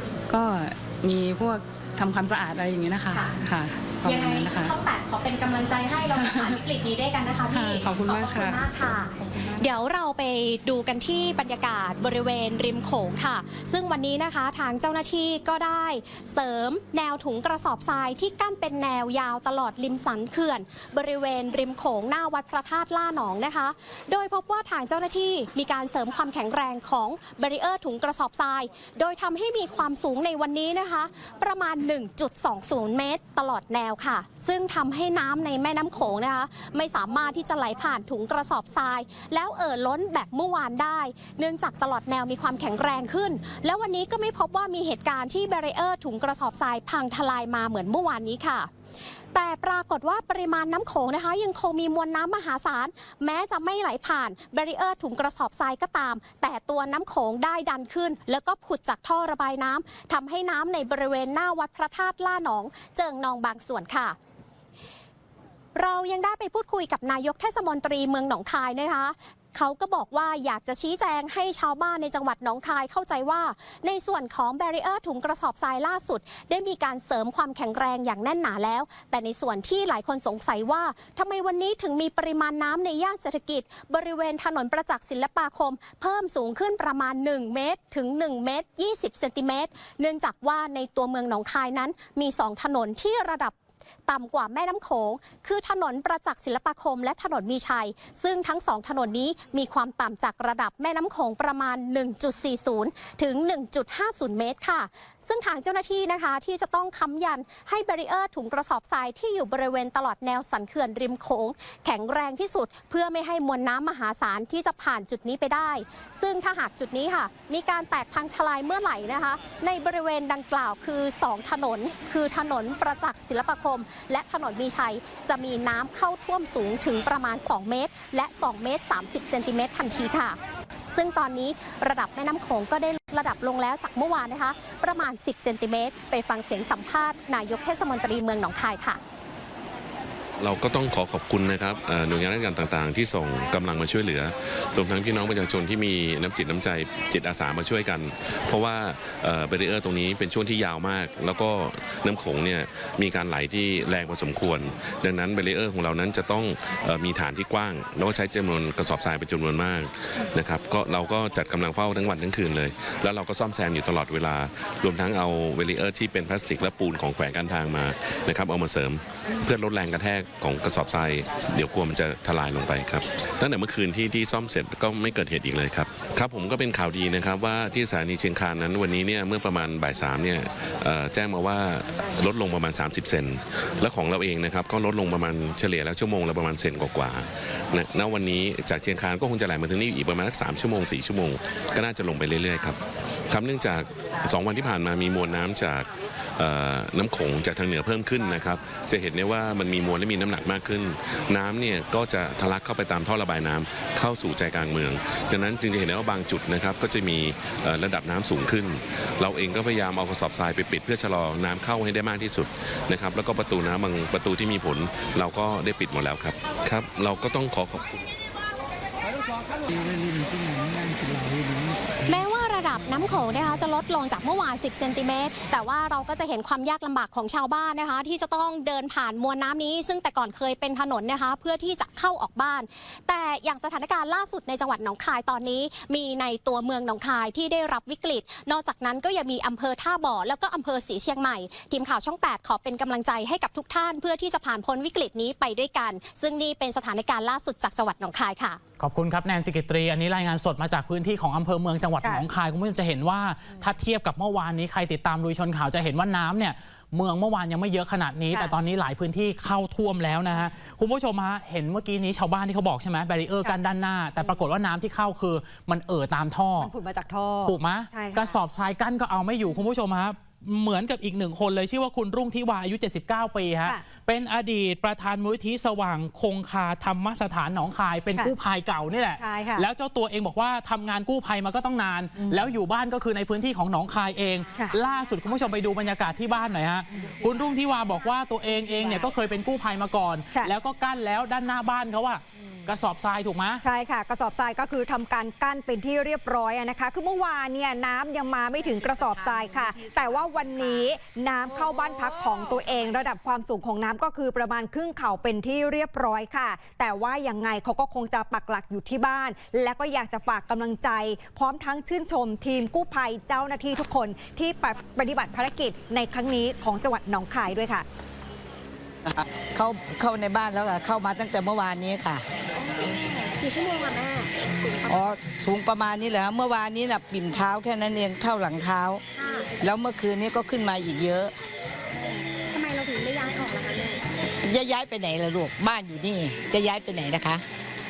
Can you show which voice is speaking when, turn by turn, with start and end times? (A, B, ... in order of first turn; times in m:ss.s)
0:00.3-0:04.7 A
0:04.0-0:48.7 B
0:06.1-0:06.6 A
0:07.5-0:08.6 A
0:49.3-1:04.2 B
1:05.7-1:33.5 B
1:34.1-2:19.0 B
2:20.4-3:38.1 C
3:42.0-4:08.6 B
4:08.8-4:26.7 D
4:26.6-4:28.4 E
4:27.4-4:53.6 D
4:39.2-4:39.7 E
4:42.2-4:42.4 E
4:48.8-4:49.0 E
4:53.6-5:17.8 E
5:19.0-5:22.2 F
5:22.6-5:25.2 B
5:24.9-5:29.0 F
5:29.1-5:29.5 B
5:29.6-5:31.3 F
5:32.0-5:34.0 B
5:34.4-5:37.4 F